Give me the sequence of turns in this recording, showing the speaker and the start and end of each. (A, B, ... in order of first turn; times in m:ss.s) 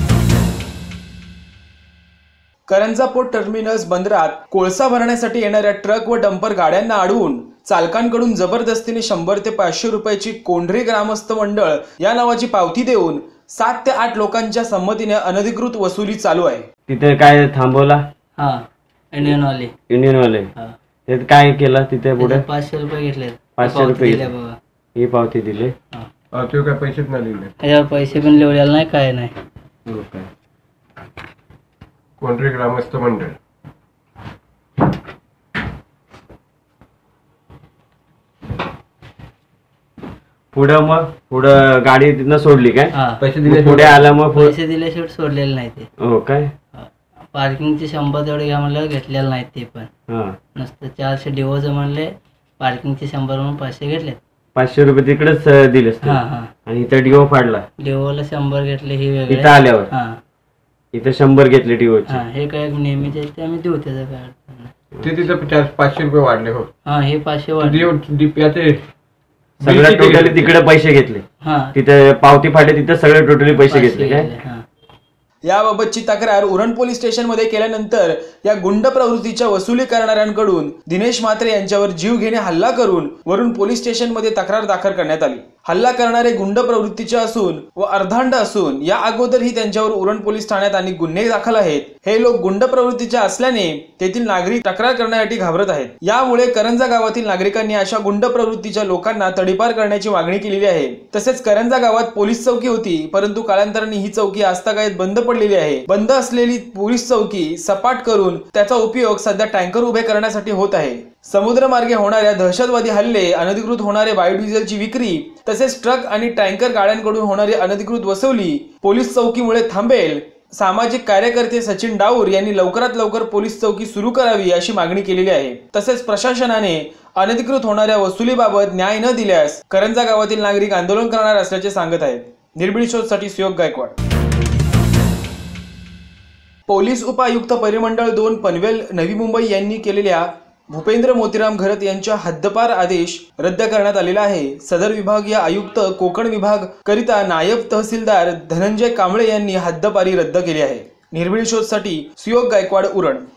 0:02.7-0:16.7 A
0:16.9-0:18.0 B
0:18.4-0:19.7 C
0:19.9-0:20.5 B
0:21.1-0:22.4 B
0:22.2-0:24.6 C
0:23.6-0:24.3 B
0:25.0-0:25.8 B
0:26.3-0:27.5 D
0:27.6-0:29.4 C
0:29.9-0:30.3 B
0:32.2-0:33.4 D
0:40.5-0:42.9 B
0:42.9-0:43.2 C
0:43.2-0:44.0 D
0:43.5-0:44.6 B
0:44.2-0:45.9 C
0:46.0-0:46.5 B
0:46.7-0:49.9 C
0:50.1-0:50.4 B
0:50.6-0:54.2 C
0:54.6-0:57.7 B
0:56.0-0:56.5 C
0:57.8-1:00.2 C
0:59.3-0:59.9 B
1:00.9-1:02.2 B
1:02.1-1:04.7 C
1:05.0-1:06.7 D
1:06.8-1:07.9 C
1:07.6-1:08.8 D
1:09.6-1:10.6 D
1:09.6-1:14.3 B
1:11.4-1:11.8 C
1:13.5-1:14.6 C
1:15.4-2:14.0 A
2:16.7-2:33.2 A